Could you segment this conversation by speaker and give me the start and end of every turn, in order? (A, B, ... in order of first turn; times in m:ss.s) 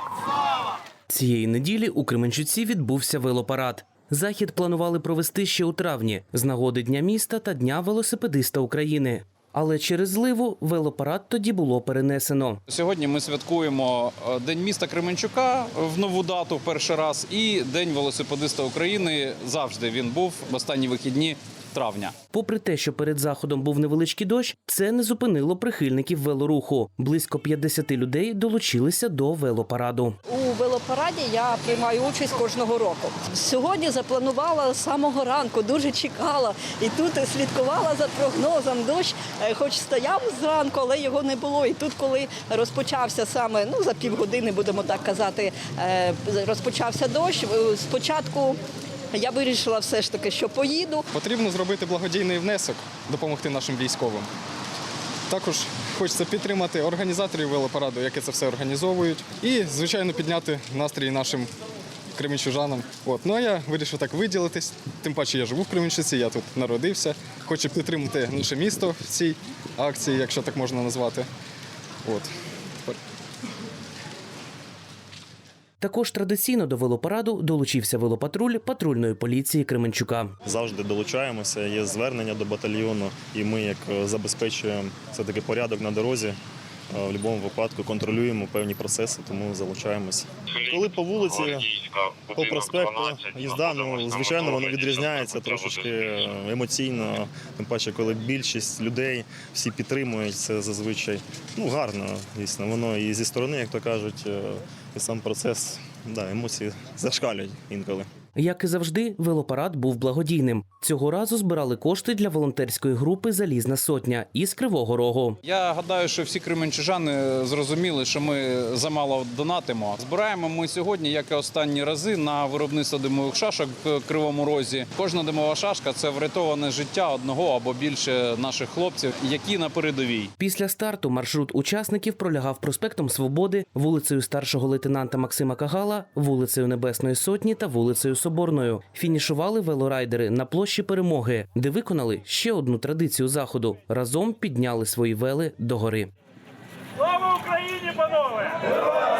0:01.1-0:12.6 A
0:12.7-0:22.2 B
0:22.3-0:30.2 A
0:30.3-0:48.6 C
0:49.1-0:51.0 C
0:51.1-0:54.3 D
0:55.3-1:01.5 D
1:02.1-1:11.3 D
1:12.0-1:12.3 D
1:15.8-1:20.3 A
1:20.4-1:26.4 E
1:26.9-1:31.7 E
1:32.3-1:48.1 E
1:48.4-1:55.4 A
1:55.4-2:10.3 B
2:10.4-2:26.1 A